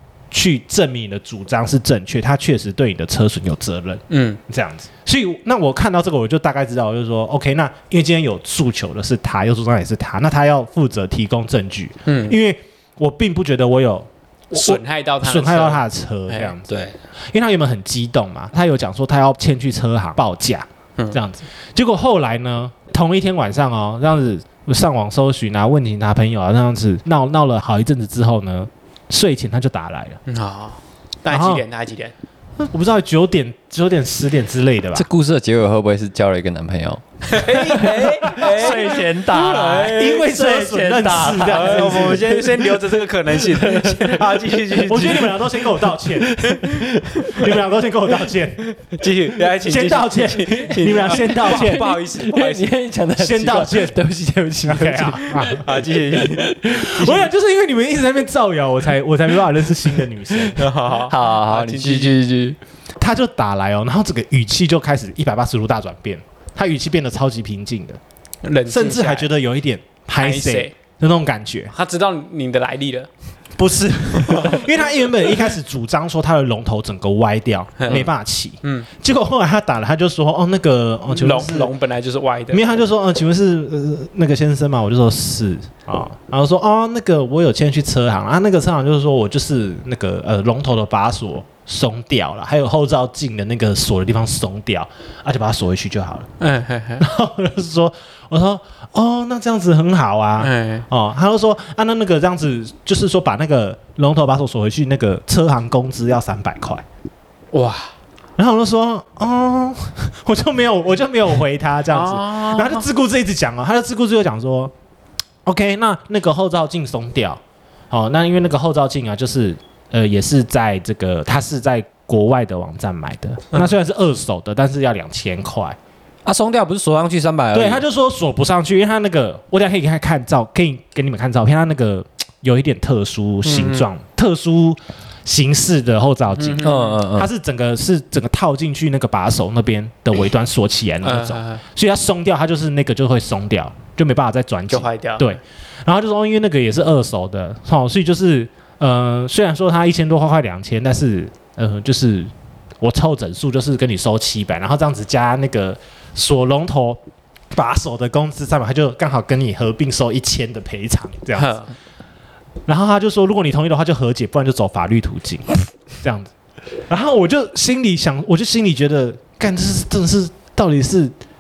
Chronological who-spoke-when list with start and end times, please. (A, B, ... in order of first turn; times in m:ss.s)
0:00.3-0:30.2 A
0:04.1-0:04.4 B
0:12.1-0:12.4 B
0:14.5-0:16.5 B
0:30.3-0:32.1 B
0:31.3-0:31.6 A
0:32.6-0:35.1 A
0:34.9-0:42.5 C
0:37.3-0:40.3 B
0:38.2-0:39.1 A
0:39.6-0:42.8 A
0:41.5-0:45.4 B
0:43.3-0:44.3 C
0:44.7-0:46.4 A
0:46.4-0:47.5 B
0:46.4-0:47.2 C
0:47.3-0:48.6 A
0:48.7-0:52.7 B
0:49.6-0:51.8 A
0:51.2-0:57.1 C
0:53.2-0:54.0 A
0:54.6-0:55.7 A
0:55.6-0:56.5 B
0:56.7-1:00.7 A
1:00.6-1:02.2 B
1:01.0-1:02.6 C
1:03.0-1:08.0 A
1:08.4-1:09.3 B
1:08.7-1:11.7 A
1:10.2-1:10.7 B
1:11.7-1:13.1 B
1:13.6-1:21.7 A
1:14.2-1:14.7 B
1:17.8-1:18.1 B
1:21.1-1:22.8 B
1:22.5-1:36.3 A
1:36.4-1:37.0 B
1:37.0-1:46.8 A
1:40.4-1:40.9 B
1:47.5-1:47.9 B
1:48.4-1:54.7 A
1:51.9-1:52.9 B
1:55.4-1:57.4 A
1:57.9-2:05.8 A
2:06.2-2:07.8 C
2:07.5-2:37.0 A
2:13.4-2:13.9 B
2:16.4-2:17.0 B
2:16.6-2:17.3 C
2:21.0-2:21.6 B
2:24.7-2:25.4 B
2:37.5-2:41.6 A
2:41.4-2:41.7 B
2:42.7-2:46.3 A
2:46.9-2:51.1 A